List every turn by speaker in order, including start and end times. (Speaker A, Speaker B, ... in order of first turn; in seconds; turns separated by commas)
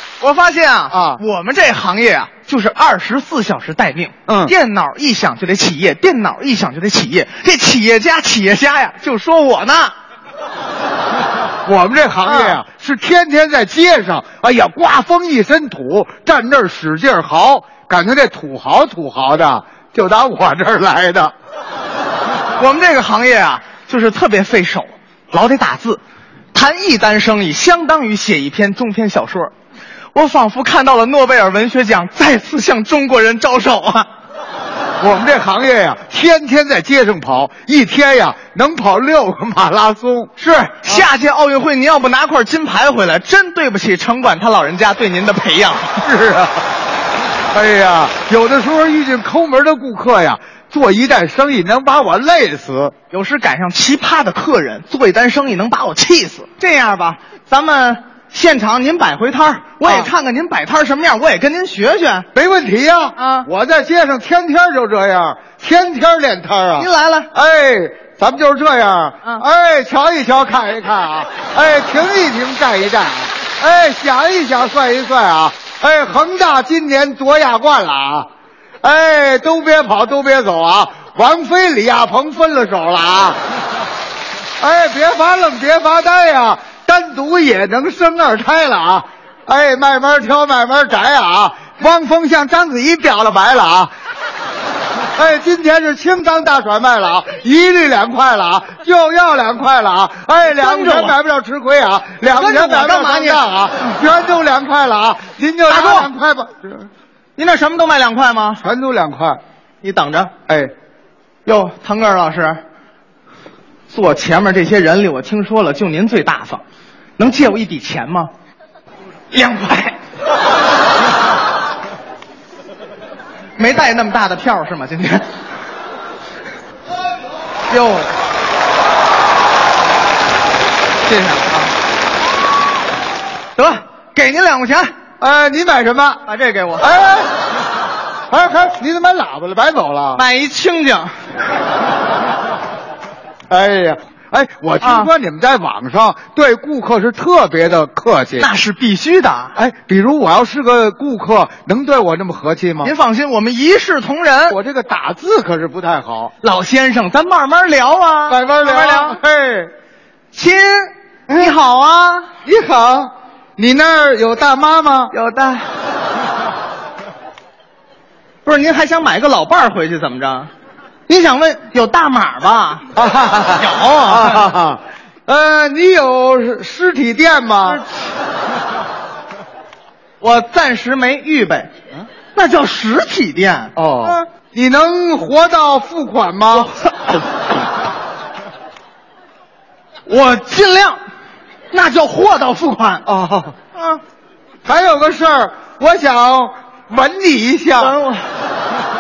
Speaker A: 0.2-9.9, Speaker B: 0.9-1.2, Speaker B: 4.3-4.5, Speaker B: 11.7-21.3, Speaker A: 12.3-12.6, Speaker A: 22.6-26.0, Speaker A: 26.5-29.5, Speaker A: 30.1-34.1, Speaker B: 35.0-40.3, Speaker A: 40.4-46.0, Speaker B: 46.0-46.6, Speaker B: 47.5-52.9, Speaker A: 53.1-62.3, Speaker B: 59.8-60.1, Speaker B: 62.3-78.3, Speaker A: 63.2-63.5, Speaker A: 66.8-67.3, Speaker B: 78.8-83.4, Speaker B: 84.6-93.9, Speaker B: 95.2-106.9, Speaker A: 100.4-101.2, Speaker A: 102.3-104.0, Speaker A: 105.7-106.1, Speaker A: 107.4-108.6, Speaker B: 108.6-109.4, Speaker A: 109.8-110.3, Speaker A: 111.5-112.6, Speaker A: 113.9-116.6, Speaker A: 117.2-118.3, Speaker A: 119.3-120.0, Speaker A: 123.6-125.2, Speaker A: 127.7-128.1, Speaker A: 131.0-131.7, Speaker A: 133.6-134.9, Speaker B: 135.2-136.2, Speaker A: 136.3-136.9, Speaker B: 136.8-137.3, Speaker B: 138.3-140.2, Speaker A: 140.2-141.1, Speaker B: 143.5-148.5, Speaker A: 144.8-145.1, Speaker A: 148.4-149.5, Speaker B: 149.6-152.9, Speaker A: 152.8-154.6, Speaker B: 154.5-156.3, Speaker A: 156.4-159.2, Speaker B: 158.3-159.7, Speaker A: 160.3-162.3, Speaker B: 162.4-165.1, Speaker A: 165.1-165.7, Speaker A: 168.4-170.5, Speaker A: 171.1-172.8, Speaker B: 172.9-177.8, Speaker A: 173.6-174.5, Speaker A: 180.2-181.7, Speaker A: 182.3-184.3, Speaker B: 183.8-186.7, Speaker A: 186.6-187.2, Speaker A: 190.1-191.0, Speaker A: 191.7-193.1, Speaker B: 193.1-193.6, Speaker A: 193.8-194.0, Speaker B: 194.7-197.9, Speaker A: 197.8-198.2